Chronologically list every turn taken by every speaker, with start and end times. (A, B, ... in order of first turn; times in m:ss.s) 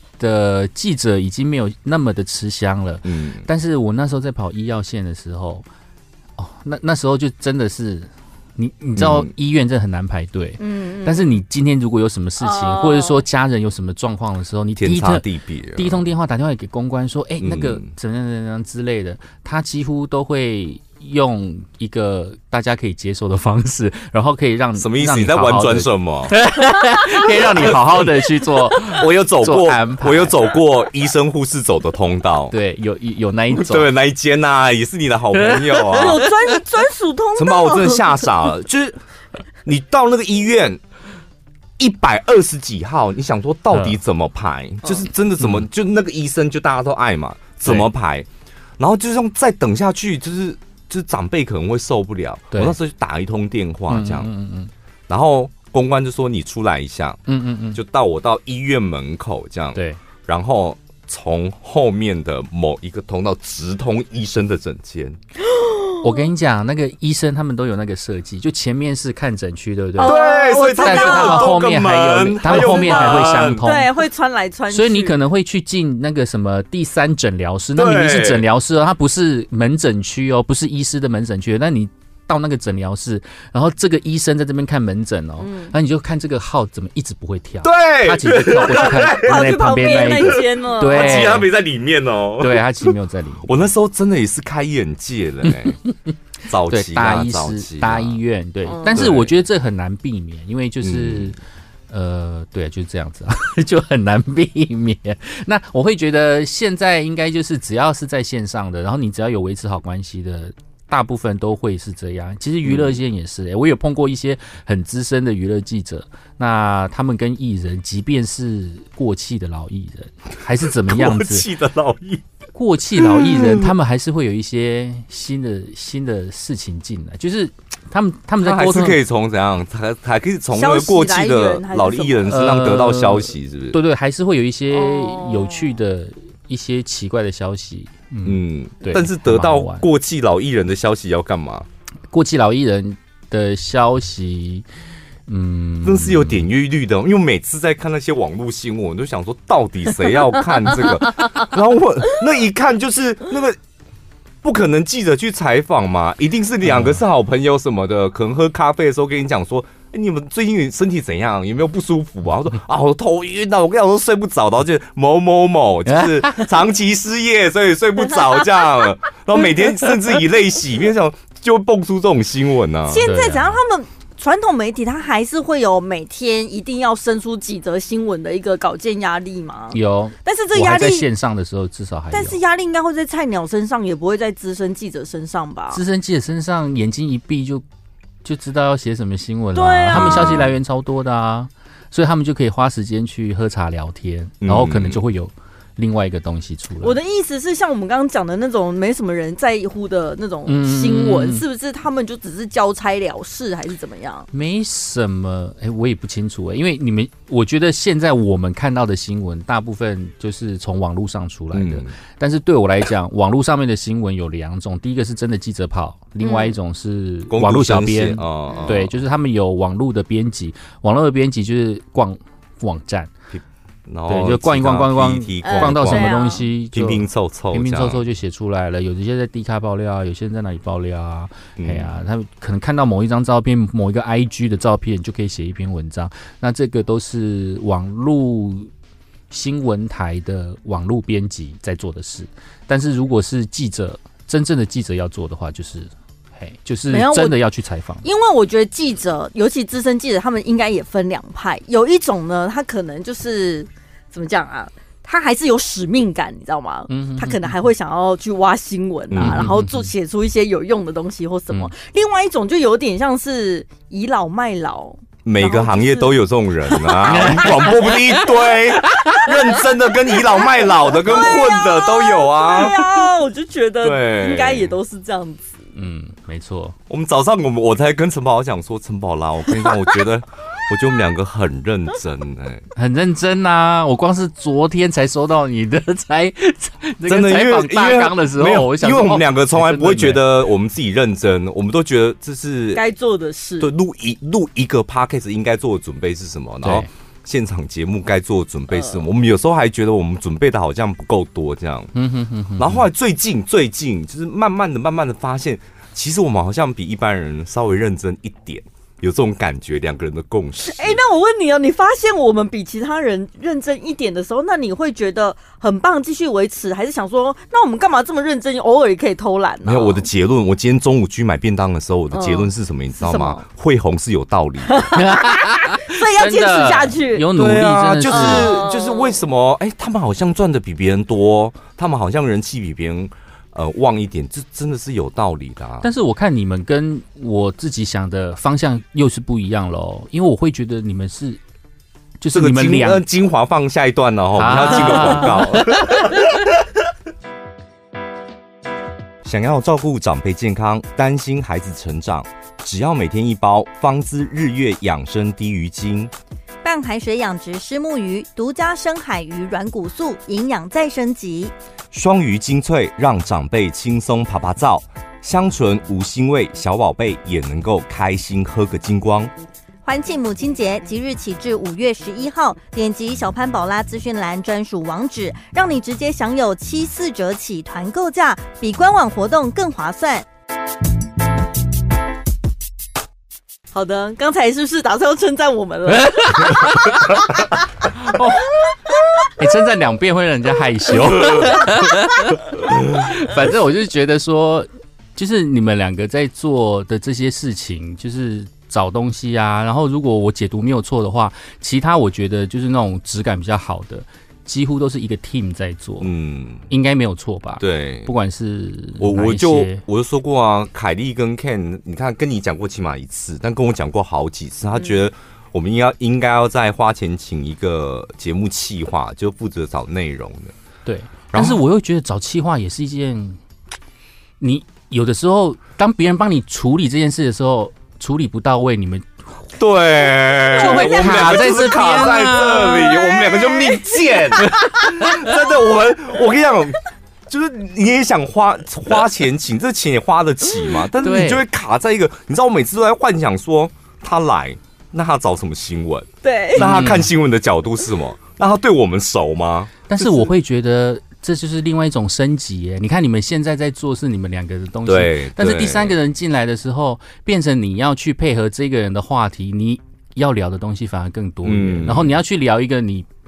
0:00.2-0:05.6 A
0:03.0-0:03.4 B
0:06.4-0:30.5 A
0:09.0-0:09.3 B
0:10.6-0:11.4 C
0:12.4-0:13.2 C
0:14.8-0:16.0 B
0:17.4-0:17.9 B
0:24.8-0:26.4 B
0:27.4-0:28.0 B
0:28.8-0:32.5 B
0:32.5-0:33.9 A
0:33.5-0:36.2 B
0:35.4-0:36.6 A
0:35.9-0:38.2 C
0:37.3-0:39.0 B
0:39.6-0:40.8 B
0:41.8-0:48.3 B
0:43.7-0:44.0 A
0:45.4-0:45.6 A
0:48.8-0:54.3 B
0:53.9-0:54.7 A
0:55.1-0:57.2 B
0:57.3-0:57.8 A
0:57.7-1:05.2 B
0:59.7-1:00.0 A
1:05.4-1:06.2 C
1:06.0-1:13.9 A
1:10.0-1:11.7 C
1:10.0-1:13.6 B
1:12.5-1:15.2 C
1:14.7-1:31.5 A
1:17.8-1:18.4 B
1:25.4-1:25.7 C
1:27.6-1:29.4 B
1:29.2-1:31.4 C
1:30.8-1:32.9 B
1:32.4-1:33.6 A
1:33.4-1:35.8 B
1:35.5-1:35.9 A
1:36.5-1:38.2 B
1:36.7-1:41.4 A
1:38.6-1:39.1 C
1:38.9-1:39.3 B
1:40.8-1:41.3 B
1:41.9-2:01.4 A
1:52.6-1:53.0 B
2:00.8-2:02.2 B
2:02.5-2:09.0 A
2:03.0-2:03.7 B
2:08.4-2:13.8 B
2:10.5-2:12.4 C
2:12.3-2:19.9 A
2:14.7-2:15.8 C
2:18.2-2:21.7 B
2:22.1-2:24.6 A
2:25.3-2:26.4 A
2:25.8-2:33.6 B
2:34.4-2:53.0 B
2:36.6-2:37.0 A
2:45.9-2:46.5 A
2:52.9-3:01.1 C
2:53.0-2:53.6 A
2:59.7-3:02.4 A
3:02.1-3:05.8 C
3:05.7-3:07.6 A
3:08.2-3:17.0 A
3:09.5-3:10.4 C
3:09.9-3:10.5 B
3:14.4-3:15.0 B
3:16.8-3:24.3 C
3:20.5-3:21.4 A
3:24.3-3:43.1 A
3:31.5-3:31.9 B
3:36.2-3:36.6 C
3:37.3-3:39.0 B
3:38.5-3:38.8 C
3:43.3-3:46.2 B
3:44.1-3:58.7 A
3:45.4-3:46.5 C
3:46.7-3:48.0 B
3:51.6-3:52.0 B
3:59.3-4:08.0 A
4:06.9-4:07.4 C
4:08.0-4:26.1 C
4:16.9-4:17.5 A
4:19.1-4:19.5 B
4:19.2-4:19.9 A
4:25.2-4:32.8 B
4:26.9-4:27.3 C
4:27.0-4:28.1 A
4:28.8-4:29.2 A
4:30.3-4:35.6 C
4:33.8-4:34.8 B
4:35.8-4:36.8 A
4:36.9-4:42.6 B
4:42.8-4:50.3 A
4:47.0-4:52.8 B
4:52.7-4:53.7 C
4:53.6-5:01.9 B
4:58.7-4:59.0 C
5:01.9-5:02.8 A
5:02.6-5:11.0 B
5:10.6-5:20.1 C
5:19.6-5:24.9 B
5:22.1-5:23.4 C
5:24.7-5:27.3 C
5:24.9-5:28.6 A
5:27.3-5:35.9 B
5:28.1-5:29.2 C
5:35.8-5:41.4 A
5:42.2-5:43.0 A
5:42.3-5:46.5 B
5:44.4-5:46.3 A
5:49.2-5:56.1 B
5:56.6-6:01.5 C
6:01.9-6:09.3 B
6:09.8-6:20.2 C
6:23.7-6:27.0 C
6:25.9-6:27.2 A
6:28.0-6:28.5 A
6:29.4-6:46.1 A
6:46.0-6:46.7 B
6:46.7-6:49.8 A
6:47.6-6:48.1 B
6:49.0-7:00.5 B
7:00.8-7:03.4 A
7:01.3-7:01.6 B
7:04.4-7:09.1 A
7:09.6-7:30.2 B
7:10.6-7:13.2 A
7:14.5-7:15.2 A
7:21.0-7:21.4 A
7:26.2-7:26.7 C
7:26.6-7:27.1 A
7:29.9-7:43.0 A
7:34.8-7:35.9 B
7:41.4-7:42.1 B